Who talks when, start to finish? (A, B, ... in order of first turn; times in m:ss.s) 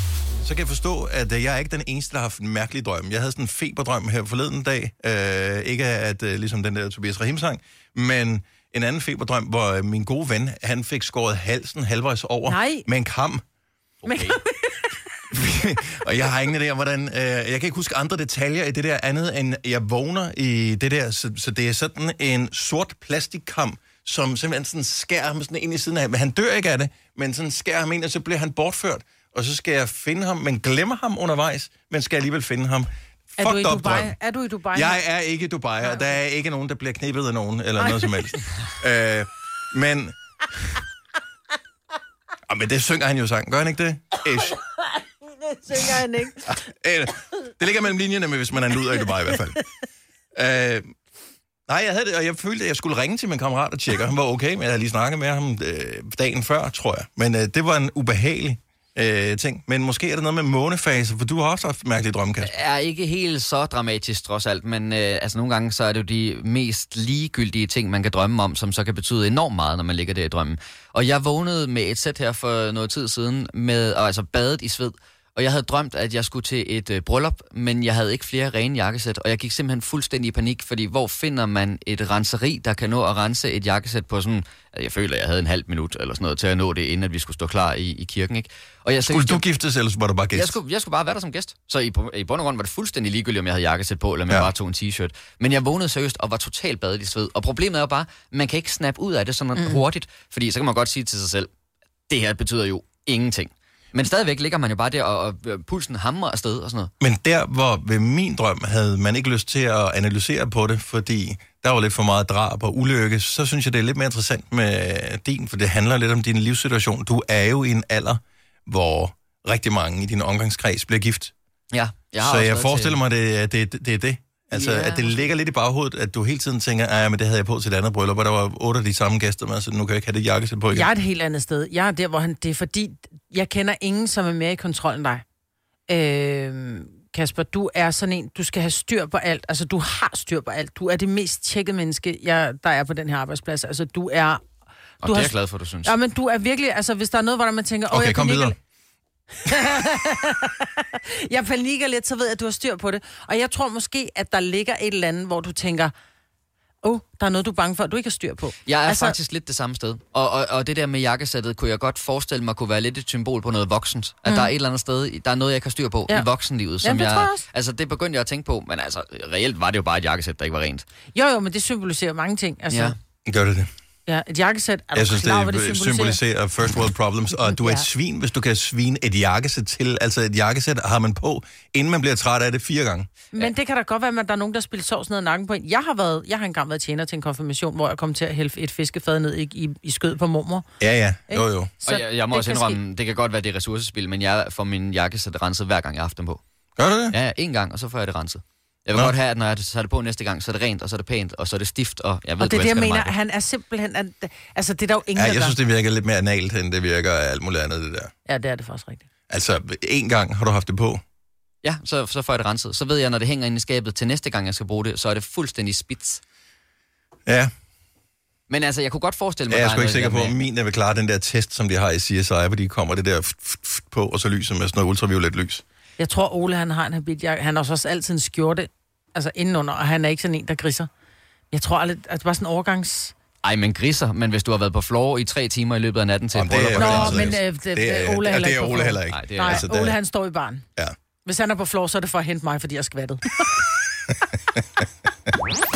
0:00.4-0:13.4 A
0:12.5-0:12.9 B
0:14.0-0:14.4 C
0:14.0-0:15.0 B
0:15.3-0:34.2 A
0:33.4-0:35.0 B
0:34.7-0:40.1 A
0:37.8-0:38.3 B
0:42.5-0:44.6 A
0:45.4-0:46.5 B
0:46.4-0:49.6 A
0:50.3-0:50.9 A
0:51.7-1:02.5 A
1:02.4-1:29.4 C
1:29.0-1:30.6 A
1:30.3-1:41.5 C
1:42.1-1:46.9 C
1:47.0-2:01.3 A
2:01.7-2:03.0 C
2:02.2-2:10.9 A
2:04.5-2:05.1 B
2:10.7-2:15.2 B
2:15.9-2:24.4 B
2:25.0-2:25.9 C
2:25.0-2:28.6 B
2:27.9-2:28.5 A
2:29.4-2:35.9 B
2:36.8-2:39.2 B
2:38.6-2:50.8 C
2:46.8-2:47.4 B
2:51.1-2:52.9 B
2:52.7-2:52.9 C
2:53.2-2:53.7 A
2:54.1-2:56.2 B
2:54.9-3:03.1 A
2:57.4-2:57.8 B
3:03.3-3:10.6 B
3:10.8-3:11.7 A
3:11.3-3:12.8 B
3:11.8-3:16.4 C
3:16.8-3:17.2 A
3:17.1-3:23.2 C
3:22.4-3:25.5 B
3:25.2-3:28.1 A
3:28.3-3:29.0 B
3:29.3-3:31.0 A
3:31.6-3:36.2 C
3:38.5-3:40.4 C
3:39.5-3:45.6 A
3:46.0-3:50.9 B
3:51.5-3:53.1 B
3:53.4-3:57.4 C
3:56.3-4:00.0 A
3:56.7-4:00.6 B
3:59.1-3:59.7 C
4:01.2-4:03.8 B